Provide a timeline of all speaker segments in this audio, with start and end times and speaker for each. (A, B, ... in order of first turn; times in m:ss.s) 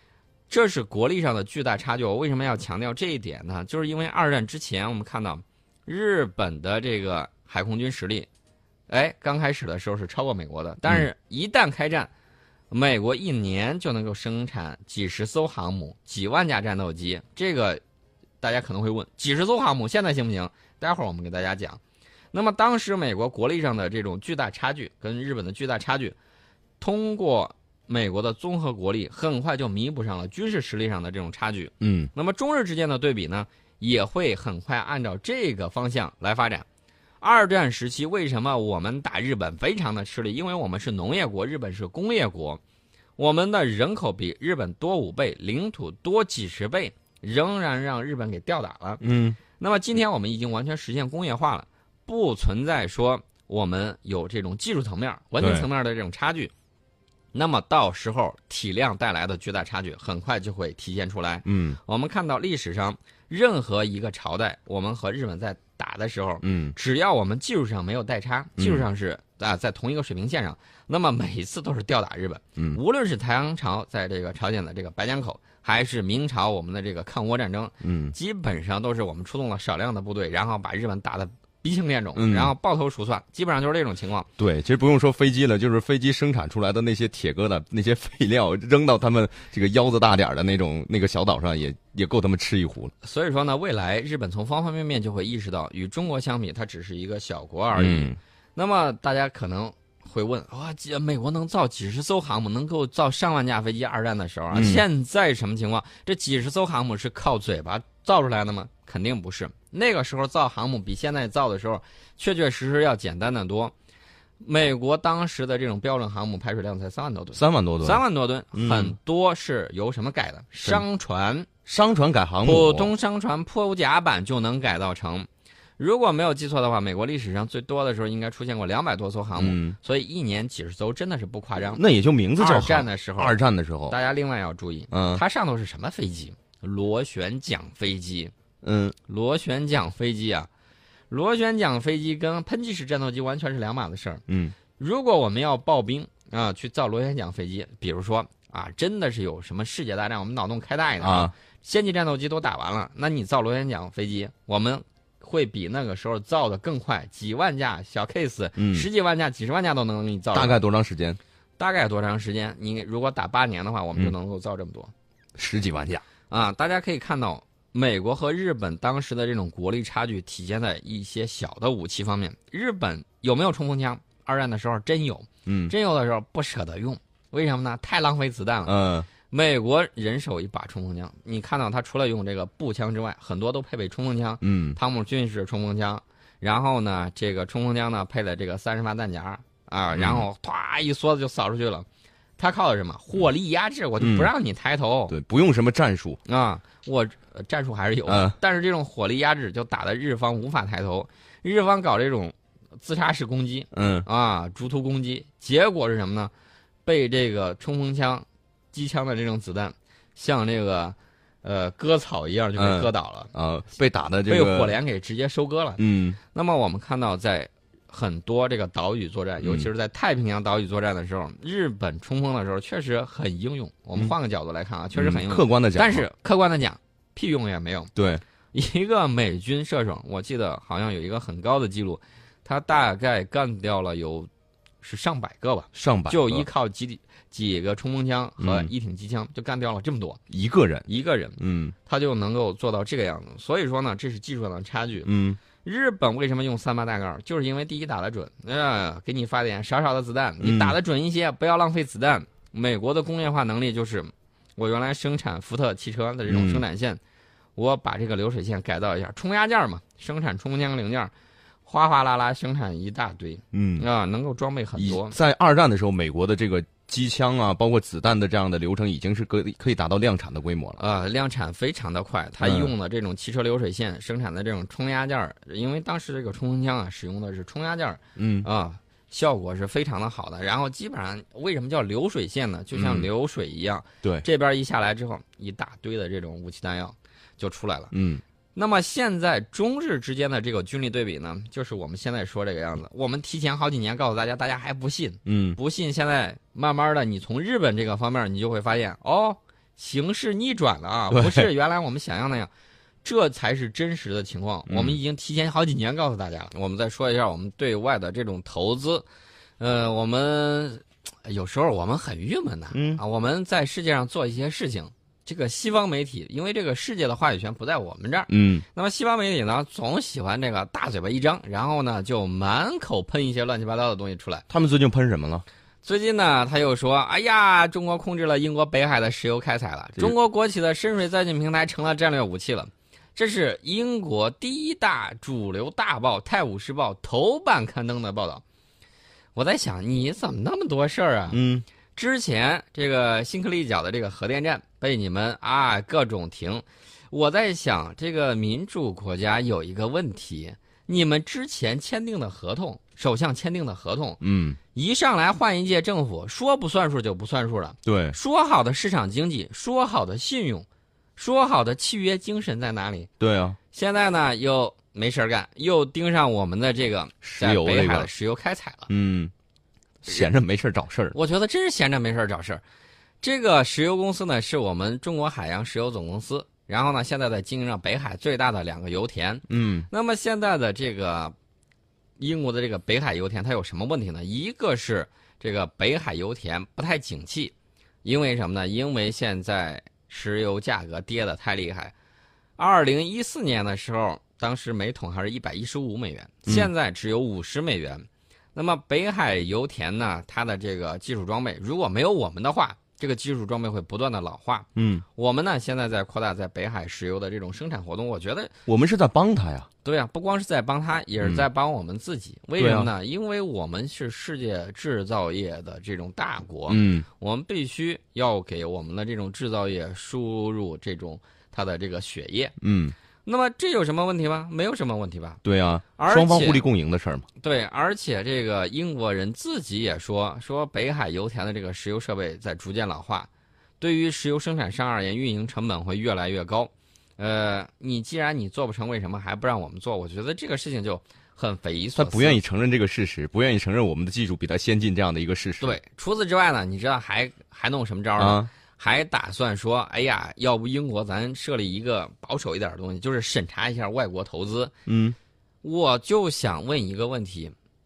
0:00.5-0:08.3 A
0:08.9-0:12.1 A
0:12.7-0:17.8 A
0:18.4-0:21.8 A
0:22.3-0:26.1 A
0:26.8-0:36.6 A
0:31.8-0:32.1 B
0:37.2-0:42.6 A
0:43.2-0:49.0 A
0:49.0-0:49.4 B
0:49.6-0:56.5 A
0:55.4-0:55.7 B
0:57.3-1:24.3 A
1:01.4-1:01.8 B
1:06.4-1:06.7 B
1:08.6-1:08.8 B
1:17.8-1:18.1 B
1:22.1-1:22.5 B
1:24.4-1:32.9 B
1:33.0-1:53.7 A
1:37.7-1:38.2 B
1:44.5-1:44.8 B
1:54.4-2:01.5 A
1:57.3-1:58.0 B
1:58.5-1:58.9 B
2:01.6-2:02.9 B
2:02.4-2:11.8 A
2:09.4-2:09.8 B
2:11.8-2:13.9 B
2:12.4-2:13.4 A
2:13.9-2:18.3 A
2:14.9-2:15.2 B
2:18.6-2:19.0 B
2:19.1-2:20.5 A
2:21.1-2:24.2 A
2:24.3-2:24.5 B
2:24.8-2:40.6 A
2:31.0-2:31.3 B
2:38.6-2:38.8 B
2:40.3-2:41.2 B
2:41.6-2:44.9 A
2:45.4-2:46.0 B
2:46.3-2:58.7 A
2:55.4-2:55.7 B
2:58.6-2:59.1 B
2:59.3-3:11.8 A
3:04.4-3:04.8 B
3:09.9-3:10.2 B
3:12.4-3:15.2 A
3:14.0-3:14.3 B
3:15.1-3:16.2 B
3:16.2-3:26.3 A
3:18.1-3:18.4 B
3:23.7-3:24.1 B
3:26.8-3:33.3 A
3:32.6-3:34.7 B
3:34.3-3:35.8 A
3:35.8-3:36.2 B
3:36.3-3:47.9 A
3:39.4-3:39.7 B
3:44.9-3:46.0 B
3:47.9-3:48.2 B
3:48.5-3:54.3 A
3:54.8-4:00.2 A
3:55.7-3:56.4 B
3:58.4-3:58.7 B
4:00.3-4:00.9 B
4:00.9-4:05.1 A
4:01.4-4:01.7 B
4:05.0-4:05.4 B
4:05.6-4:17.0 A
4:10.4-4:10.8 B
4:16.3-4:16.6 B
4:17.6-4:21.1 A
4:21.6-4:25.1 A
4:23.5-4:23.8 B
4:24.8-4:30.8 B
4:30.8-4:47.9 A
4:32.4-4:32.7 B
4:38.2-4:38.5 B
4:42.7-4:43.1 B
4:47.9-4:48.2 B
4:48.6-5:02.5 A
4:55.2-4:55.6 B
5:01.1-5:01.5 B
5:03.0-5:09.0 A
5:04.6-5:05.0 B
5:09.6-5:24.4 A
5:12.7-5:13.0 B
5:18.3-5:18.6 B
5:24.5-5:25.4 B
5:25.8-5:38.4 A
5:39.3-5:41.4 A
5:41.3-5:41.6 B
5:42.0-5:54.2 A
5:54.2-5:54.6 B
5:54.7-6:03.1 A
5:57.8-5:58.2 B
6:03.2-6:03.6 B
6:03.7-6:08.9 A
6:07.2-6:08.1 B
6:08.9-6:09.3 B
6:10.0-6:11.1 B
6:11.1-6:12.6 A
6:13.2-6:21.3 A
6:19.5-6:19.9 B
6:22.2-6:27.5 A
6:28.0-6:31.9 A
6:32.6-6:48.5 A
6:44.8-6:45.0 B
6:48.7-6:49.7 B
6:49.8-7:02.5 A
6:52.6-6:52.9 B
6:56.7-6:57.0 B
7:02.6-7:02.9 B
7:03.2-7:05.4 A
7:05.4-7:07.3 B
7:06.0-7:06.6 A
7:07.4-7:22.4 A
7:21.9-7:25.8 B
7:25.6-7:34.7 A
7:28.2-7:28.5 B
7:34.9-7:35.2 B
7:35.6-7:37.5 A